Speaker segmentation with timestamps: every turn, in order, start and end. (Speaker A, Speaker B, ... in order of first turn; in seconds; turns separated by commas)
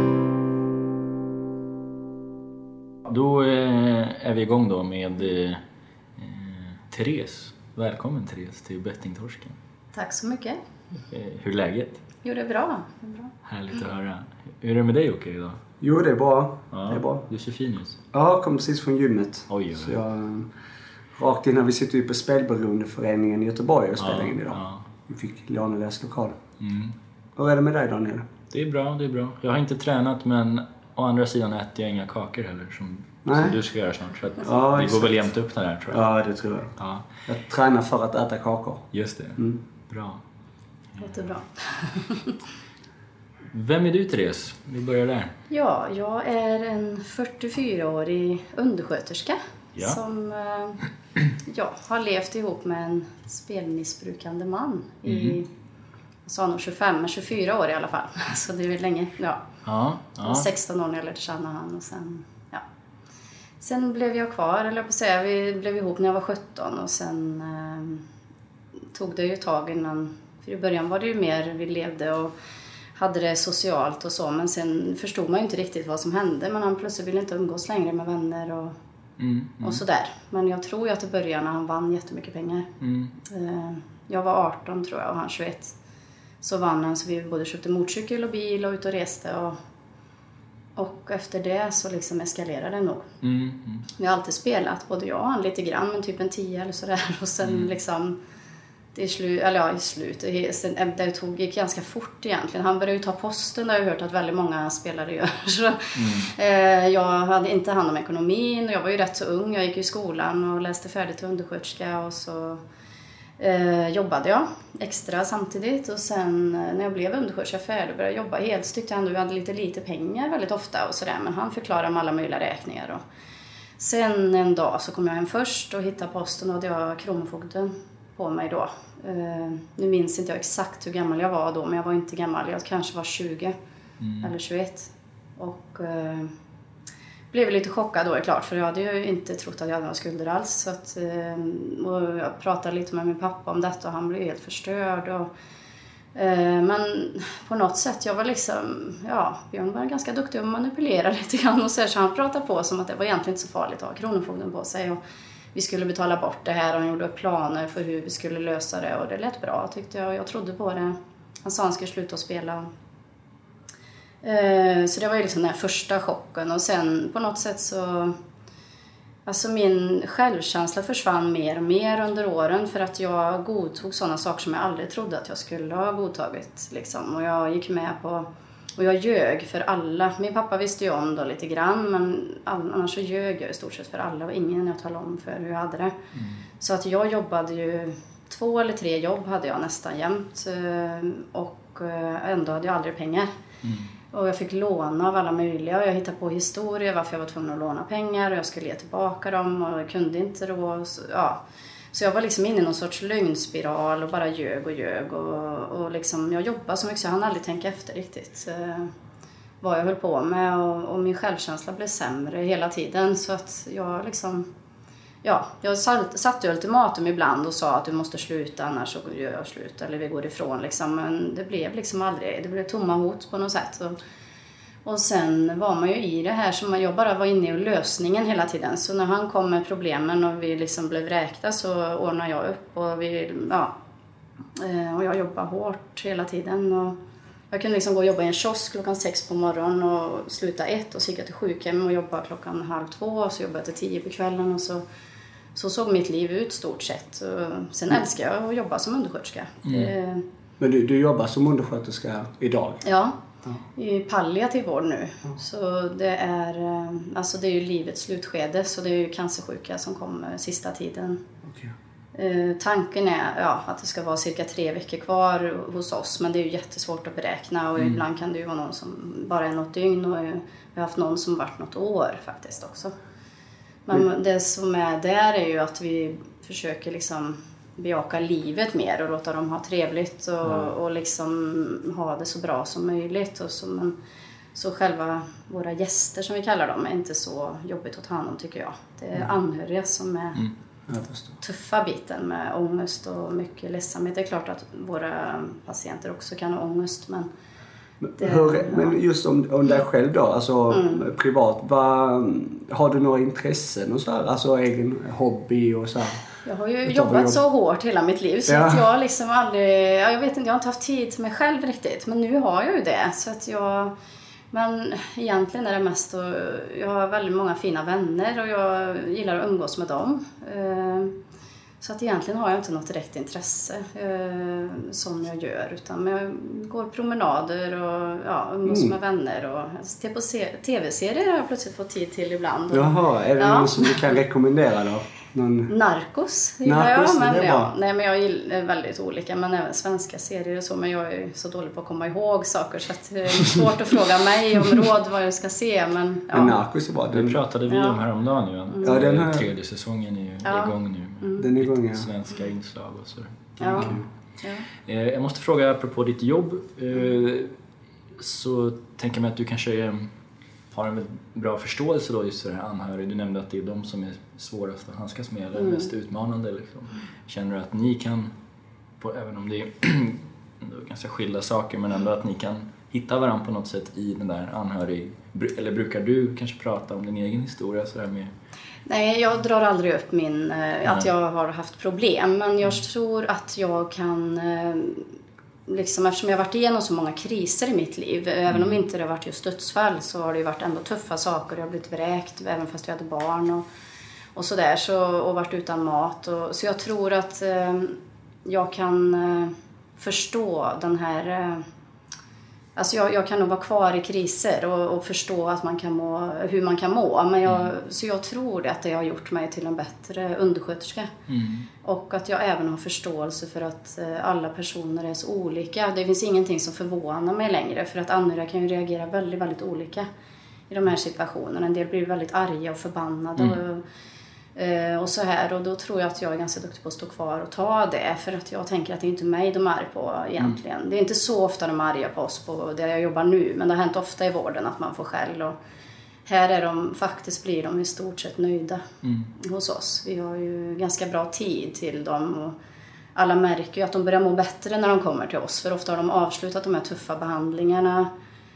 Speaker A: 3.0-5.6, Speaker A: 6.2-9.6, Speaker B: 9.9-10.6, Speaker A: 11.0-12.0, Speaker B: 12.2-13.3, Speaker A: 13.4-15.6, Speaker C: 15.8-17.2, Speaker A: 16.7-18.0, Speaker C: 18.1-20.5, Speaker A: 19.5-20.0, Speaker C: 21.2-26.4, Speaker A: 24.0-24.8, Speaker A: 26.6-27.0, Speaker C: 27.4-28.3, Speaker A: 28.5-36.0, Speaker C: 33.2-33.5, Speaker C: 34.4-35.3, Speaker C: 35.9-39.6, Speaker A: 36.8-37.1, Speaker A: 38.9-40.2, Speaker B: 41.0-42.4, Speaker A: 43.5-45.3, Speaker B: 45.5-50.8, Speaker B: 51.5-55.5, Speaker A: 55.0-55.4, Speaker B: 56.2-59.4, Speaker A: 59.6-60.5, Speaker B: 60.2-62.6, Speaker B: 63.6-68.0, Speaker B: 68.9-72.3, Speaker B: 73.0-78.7, Speaker A: 79.2-79.8, Speaker B: 79.6-82.7, Speaker A: 82.8-83.1, Speaker B: 83.2-85.7, Speaker B: 86.4-89.6, Speaker B: 90.8-93.1, Speaker A: 93.2-93.8, Speaker B: 94.0-98.2, Speaker A: 97.4-97.7, Speaker B: 98.9-112.6, Speaker A: 105.9-106.3, Speaker B: 113.4-123.0, Speaker B: 123.8-133.5, Speaker A: 134.0-134.3, Speaker B: 134.2-136.3, Speaker B: 137.3-145.3, Speaker B: 146.1-155.0, Speaker B: 155.5-162.7, Speaker B: 164.2-168.1, Speaker B: 169.2-185.9, Speaker A: 186.1-186.4, Speaker B: 186.6-193.3, Speaker A: 193.6-193.9, Speaker B: 194.1-208.9, Speaker B: 209.6-214.5, Speaker B: 215.2-224.0, Speaker B: 224.8-233.7, Speaker B: 234.6-237.0, Speaker B: 237.5-244.8, Speaker B: 245.5-250.2, Speaker A: 249.6-249.9, Speaker C: 250.6-252.8, Speaker B: 252.8-253.2, Speaker B: 253.8-261.2, Speaker C: 261.4-261.7, Speaker B: 262.1-272.9, Speaker B: 273.9-283.9, Speaker C: 280.4-280.7, Speaker B: 284.5-290.4, Speaker C: 290.9-291.4, Speaker B: 291.4-297.3, Speaker C: 298.0-306.2, Speaker B: 298.2-299.0, Speaker B: 300.7-301.1, Speaker B: 306.4-313.9, Speaker C: 306.8-307.4, Speaker C: 308.5-308.8, Speaker B: 314.5-321.1, Speaker B: 321.8-334.2, Speaker C: 328.6-328.9, Speaker C: 332.7-335.7, Speaker B: 335.7-346.6, Speaker C: 336.6-337.7, Speaker C: 346.3-347.4, Speaker A: 347.1-354.0, Speaker B: 347.7-348.0, Speaker B: 348.7-349.0, Speaker C: 348.8-349.4, Speaker B: 350.4-351.5, Speaker C: 351.4-352.1, Speaker B: 353.6-354.7, Speaker C: 353.7-354.1, Speaker A: 354.8-357.5, Speaker A: 358.1-360.1, Speaker A: 360.7-368.3, Speaker B: 365.6-365.9, Speaker A: 369.0-378.3, Speaker B: 378.9-385.1, Speaker B: 385.7-393.6, Speaker A: 388.5-388.8, Speaker B: 394.3-401.6, Speaker B: 402.8-411.1, Speaker A: 411.3-411.7, Speaker B: 411.8-420.1, Speaker B: 420.7-423.8, Speaker B: 424.6-435.5, Speaker B: 436.2-438.8, Speaker A: 439.0-439.3, Speaker B: 439.4-442.6, Speaker B: 443.1-448.1